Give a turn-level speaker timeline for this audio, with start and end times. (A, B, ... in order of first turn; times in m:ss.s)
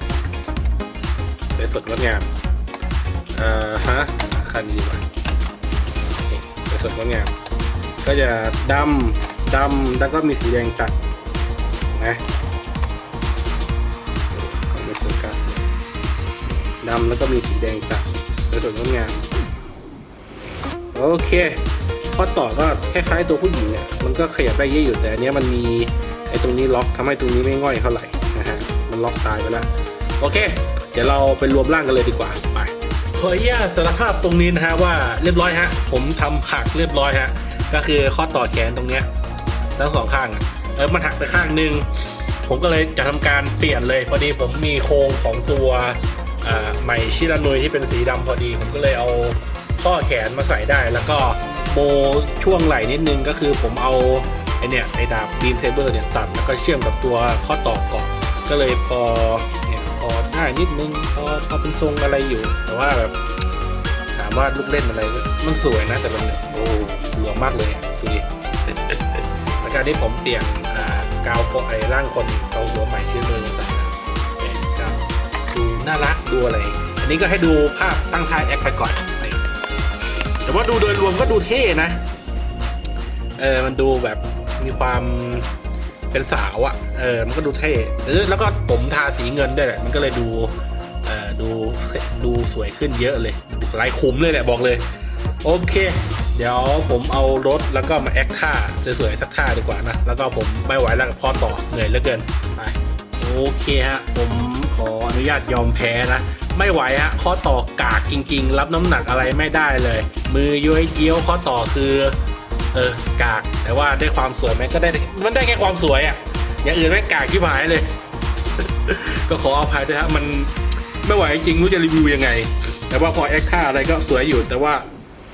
0:01.5-0:02.3 A
0:03.3-0:05.0 A
0:06.3-0:07.3 A
0:08.0-0:10.9 A
0:11.9-0:12.2 A
0:14.3-0:15.7 A
0:16.4-0:19.3 A
0:20.3-0:39.1 A
0:39.8-1:03.2 A
1:04.2-1:19.4 A
1:20.4-1:22.0 A
1:23.4-1:25.5 A
1:26.1-1:34.8 A
1:35.4-1:52.2 A
1:52.7-1:57.9 A
1:58.6-2:00.5 A
2:01.0-2:04.9 A